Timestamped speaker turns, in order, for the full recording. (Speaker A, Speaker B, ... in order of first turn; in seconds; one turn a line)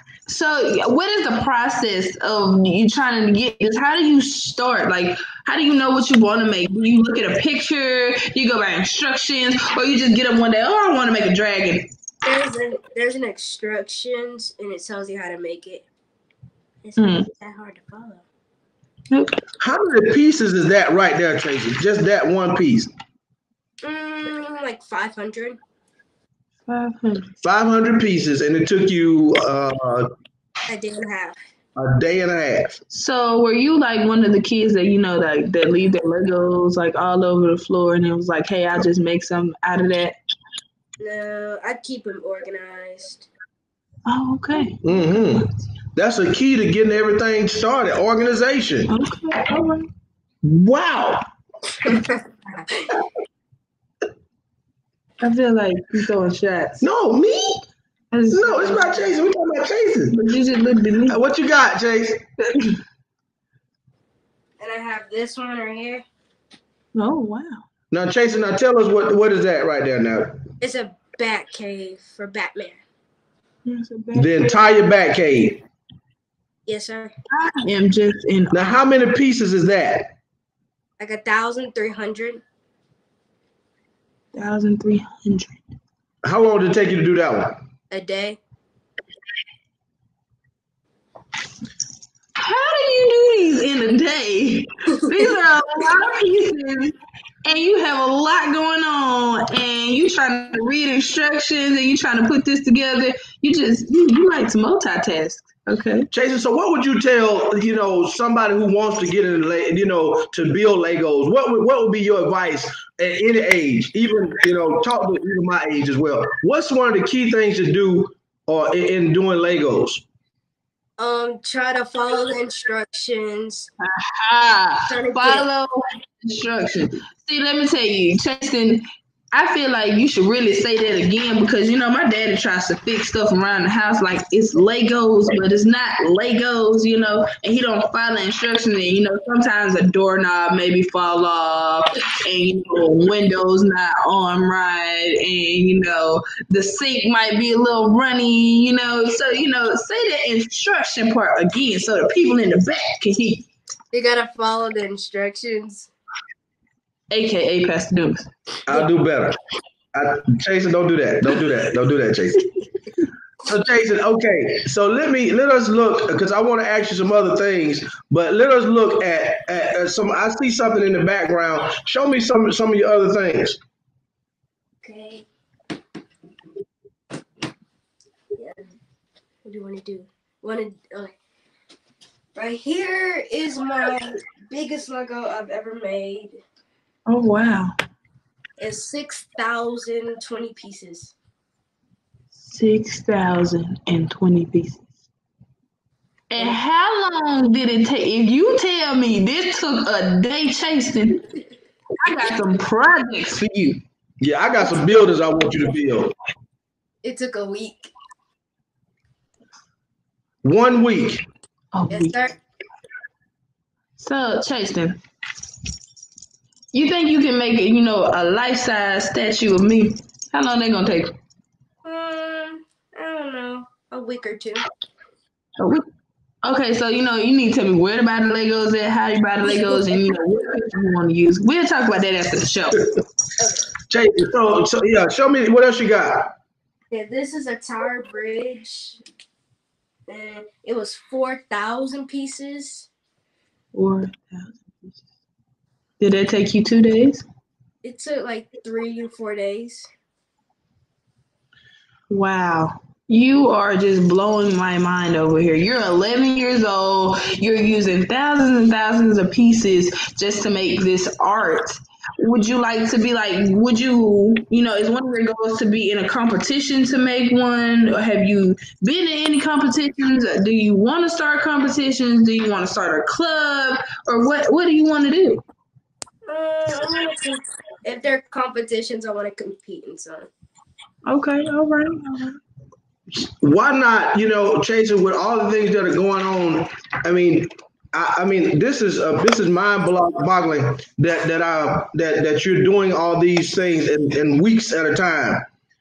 Speaker A: 0.3-11.9
Speaker B: 12.2-15.9
Speaker B: 16.8-18.2
Speaker A: 17.0-17.3
Speaker A: 19.1-19.4
Speaker C: 19.6-22.9
Speaker B: 23.8-25.6
Speaker A: 26.7-27.3
Speaker C: 27.4-30.1
Speaker B: 30.7-31.4
Speaker C: 31.8-32.8
Speaker A: 32.9-40.2
Speaker B: 41.0-43.3
Speaker A: 44.0-44.8
Speaker C: 44.8-48.9
Speaker A: 48.9-49.9
Speaker C: 50.4-51.2
Speaker B: 51.9-52.9
Speaker A: 55.2-56.8
Speaker C: 56.8-57.6
Speaker A: 58.1-59.1
Speaker C: 58.3-60.2
Speaker A: 60.1-61.2
Speaker C: 61.1-62.2
Speaker B: 64.6-66.0
Speaker A: 66.9-67.6
Speaker C: 67.9-70.4
Speaker B: 70.6-72.8
Speaker A: 73.7-74.5
Speaker C: 74.1-75.6
Speaker B: 76.7-77.1
Speaker A: 77.3-78.8
Speaker C: 78.5-80.1
Speaker B: 81.0-82.4
Speaker A: 84.3-85.6
Speaker C: 86.2-87.6
Speaker B: 87.9-88.4
Speaker A: 92.4-106.1
Speaker C: 106.1-120.0
Speaker B: 121.0-123.7
Speaker A: 123.8-153.5
Speaker B: 124.9-125.5
Speaker B: 153.9-155.9
Speaker A: 157.1-158.3
Speaker C: 158.7-159.4
Speaker C: 159.9-162.4
Speaker C: 163.4-173.6
Speaker B: 174.8-175.2
Speaker B: 178.3-178.6
Speaker B: 179.4-181.2
Speaker B: 182.3-186.4
Speaker A: 187.1-187.8
Speaker B: 188.6-191.1
Speaker A: 192.4-194.9
Speaker A: 196.3-201.3
Speaker A: 202.0-203.8
Speaker C: 204.2-206.1
Speaker B: 207.0-207.9
Speaker C: 210.4-211.2
Speaker A: 211.7-212.2
Speaker B: 211.9-212.3
Speaker A: 214.0-215.0
Speaker A: 216.7-221.1
Speaker B: 221.8-224.7
Speaker A: 225.6-225.8
Speaker A: 226.4-232.8
Speaker B: 229.5-230.2
Speaker C: 233.9-236.3
Speaker B: 236.9-239.0
Speaker B: 240.1-242.9
Speaker A: 243.7-245.0
Speaker A: 246.0-247.2
Speaker B: 247.8-249.9
Speaker A: 252.1-275.4
Speaker B: 276.3-280.3
Speaker A: 281.1-282.4
Speaker C: 283.1-295.4